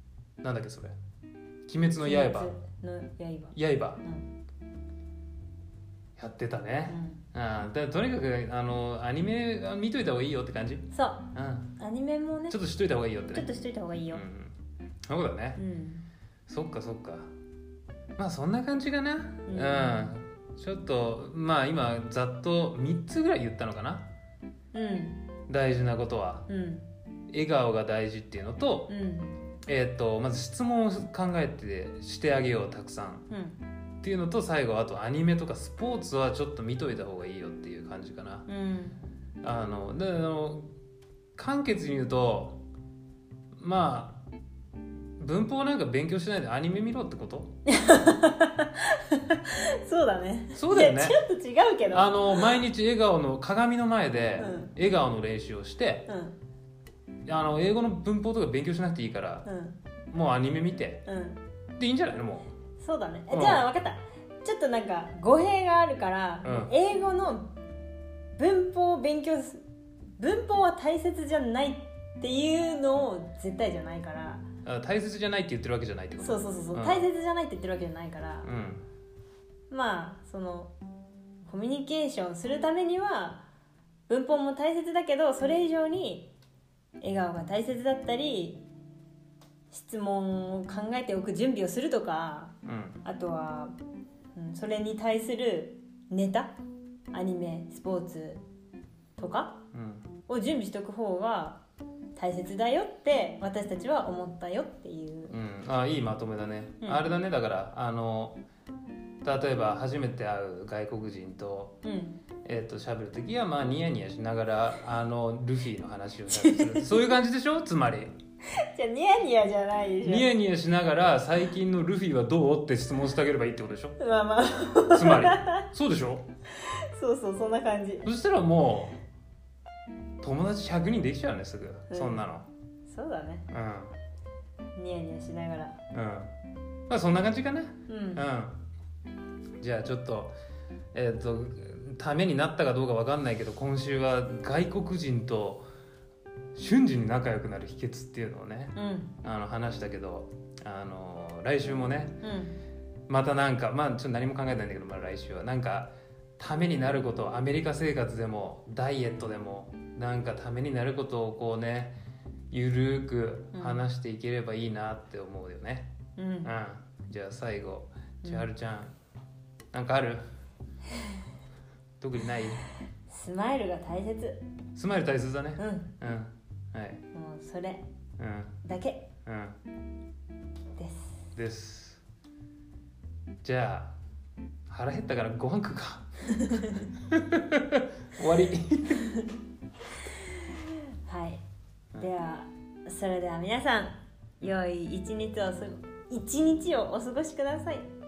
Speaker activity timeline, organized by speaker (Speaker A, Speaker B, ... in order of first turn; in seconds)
Speaker A: 0.4-0.9, 1.6-2.5, 3.5-4.0, 6.2-11.7, 12.5-13.5, 14.1-14.5, 15.1-15.6, 16.5-17.3, 18.2-24.1, 25.5-26.5, 27.3-28.9, 29.6-33.3, 34.0-38.5, 39.4-40.7, 41.4-42.6, 43.5-44.2, 45.2-47.5, 50.5-51.2, 51.9-56.1, 57.2-59.5, 60.1-61.0, 61.8-62.5, 63.3-63.6, 66.4-66.7, 74.6-77.1, 78.4-78.8, 92.6-93.0, 99.7-100.1, 105.3-108.4, 109.2-111.8, 112.4-118.1, 120.0-124.0, 124.9-126.2, 128.0-129.0, 130.2-132.5, 133.5-133.9, 135.9-136.3, 136.9-138.6, 139.6-140.3, 140.9-145.6, 146.5-152.2, 153.1-161.9, 162.5-165.9, 166.4-168.9, 169.7-170.2, 172.0-172.6, 174.7-177.0, 178.2-178.6, 179.2-179.6, 181.3-182.0, 183.4-183.9, 184.7-189.1
Speaker B: 2.0-4.3, 6.9-7.2, 10.9-12.6, 13.3-14.2, 15.6-16.0, 19.5-20.1, 24.7-25.2, 26.5-26.9, 28.9-29.4, 33.3-33.6, 38.5-39.0, 47.6-52.6, 54.4-54.7, 56.1-56.3, 59.4-59.8, 61.0-61.4, 62.8-67.5, 68.4-69.6, 70.2-74.4, 76.2-78.5, 79.7-80.7, 81.4-83.5, 84.1-86.3, 87.0-88.6, 89.7-93.7, 94.3-96.5, 97.1-98.4, 99.2-99.6, 100.3-101.6, 102.2-105.3, 106.8-107.1, 111.8-112.2, 116.3-117.0, 118.5-120.3, 124.0-125.7, 126.5-128.1, 131.9-132.2, 132.9-133.5, 134.8-135.8, 137.9-138.2, 148.7-149.1, 152.2-152.6, 163.5-163.8, 166.2-166.5, 173.1-174.4, 175.6-175.9, 177.1-177.8, 178.6-179.1, 180.8-181.3, 186.3-186.8, 188.9-189.3, 190.1-191.4, 191.9-197.8